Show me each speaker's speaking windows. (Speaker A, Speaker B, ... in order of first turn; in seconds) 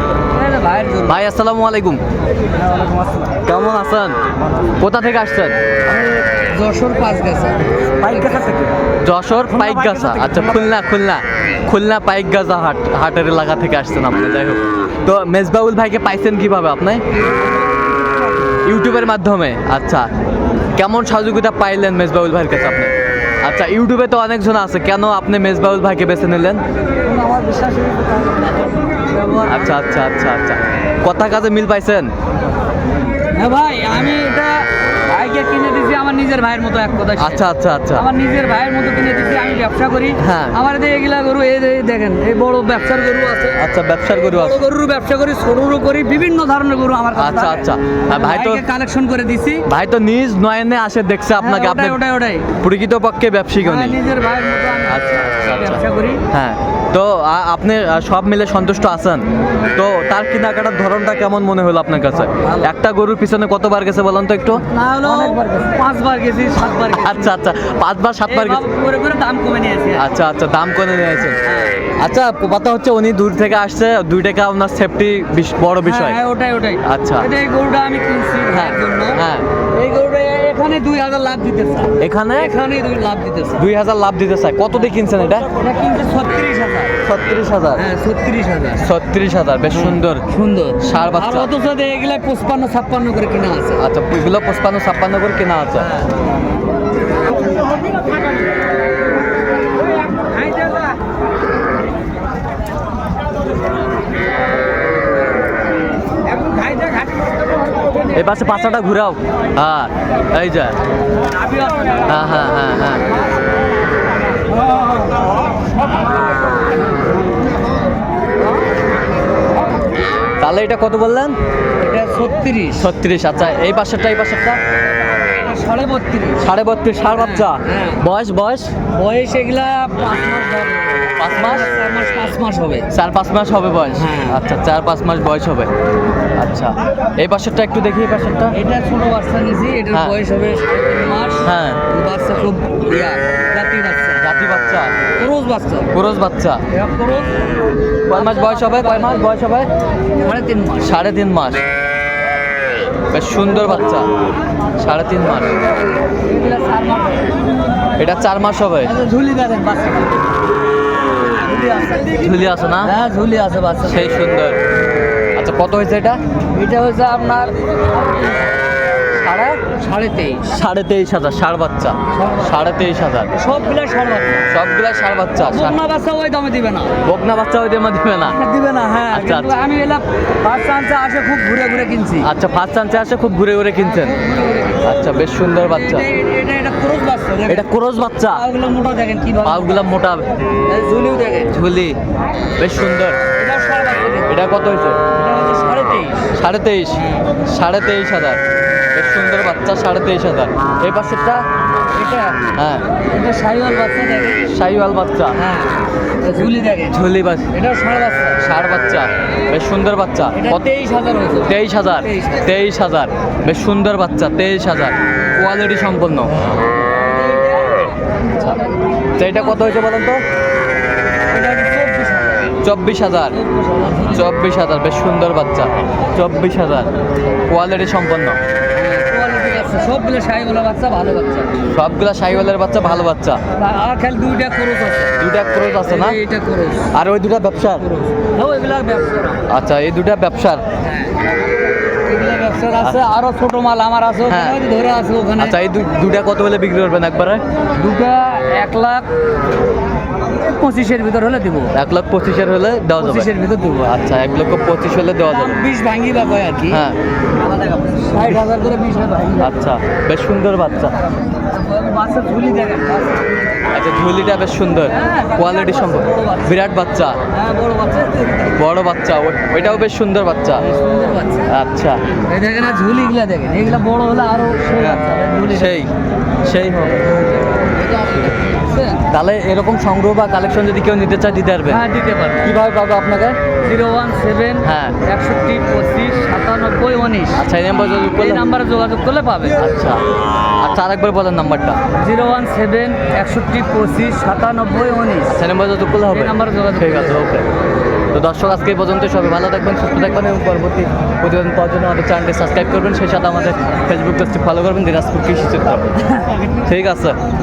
Speaker A: 0.3-1.2, 2.6-3.3, 6.4-8.8, 9.5-10.5, 17.1-18.6, 27.0-29.8, 33.3-49.7, 51.4-52.5, 53.6-56.2, 62.4-62.7, 64.6-67.3, 68.3-70.1, 71.4-71.9, 75.8-83.7, 85.6-87.0, 87.7-88.8, 89.7-93.8, 95.8-96.1, 111.4-112.2, 121.8-122.9, 125.4-126.5, 127.1-128.0, 128.9-132.9, 134.0-134.4, 138.5-144.2, 145.2-145.9, 146.7-147.5, 148.1-149.3, 150.2-151.0, 153.4-153.9, 155.6-157.4, 158.8-160.3, 161.3-164.3, 166.5-168.5, 169.7-170.4, 172.1-172.6, 173.3-174.5, 175.4-177.0, 178.3-182.3, 183.8-185.0, 185.6-187.7, 188.3-189.9, 190.7-191.5, 193.4-194.3, 195.1-196.3, 197.0-197.3, 201.9-202.4, 203.1-204.5, 205.3-208.4, 210.3-212.6, 216.9-217.9, 219.2-219.7, 221.3-222.6, 223.3-224.3, 228.7-231.6, 233.6-235.2, 235.8-236.9, 237.8-239.5, 240.8-241.2, 242.1-245.6, 247.8-249.1, 250.5-251.7, 253.0-254.0, 255.2-256.8, 257.6-259.5, 261.5-263.3, 264.9-266.6, 267.3-268.6, 269.6-269.9, 270.6-271.5, 272.2-275.8, 277.8-279.1, 281.7-282.5, 283.6-287.4, 288.1-289.6, 292.0-295.4, 296.1-297.2, 306.0-306.5
Speaker B: 1.1-2.0, 3.4-5.5, 9.0-17.0, 18.6-20.1, 20.8-26.6, 29.4-32.1, 37.2-38.1, 40.2-40.6, 43.6-44.6, 47.1-48.6, 49.7-52.0, 52.6-54.0, 54.9-65.3, 66.9-68.7, 70.0-71.4, 72.0-76.2, 76.8-77.3, 78.5-79.5, 82.0-82.5, 83.6-85.5, 87.0-87.8, 88.8-90.3, 90.8-91.5, 93.8-95.9, 108.2-110.8, 112.1-113.1, 120.4-121.4, 122.8-124.6, 126.4-128.7, 131.2-131.7, 132.9-135.7, 136.4-138.6, 141.4-141.8, 144.2-144.9, 145.9-146.6, 148.1-149.7, 150.8-151.6, 153.1-154.1, 154.8-155.5, 158.0-158.9, 162.2-162.9, 163.8-164.6, 165.4-166.2, 169.1-169.6, 170.4-173.3, 174.5-175.8, 177.0-178.4, 179.1-179.6, 182.2-184.2, 184.8-186.1, 187.5-188.4, 189.4-190.3, 191.5-192.0, 192.6-193.2, 194.3-195.0, 196.3-198.4, 198.9-201.4, 202.6-202.9, 204.5-205.4, 206.9-207.5, 208.4-210.6, 211.5-216.3, 218.3-218.6, 219.2-220.2, 222.6-223.4, 224.0-226.9, 227.5-228.4, 231.7-233.4, 235.2-236.2, 236.9-237.9, 239.5-240.6, 242.8-243.1, 244.3-244.6, 245.4-247.4, 251.7-253.3, 253.8-255.6, 256.7-257.0, 259.4-260.9, 263.7-267.2, 268.6-270.6, 271.5-272.0, 274.8-275.9, 276.4-277.2, 279.1-281.9, 282.4-283.4, 284.6-285.0, 287.4-288.4, 289.6-290.0, 290.6-291.8, 295.3-297.5, 298.1-305.9, 306.6-307.2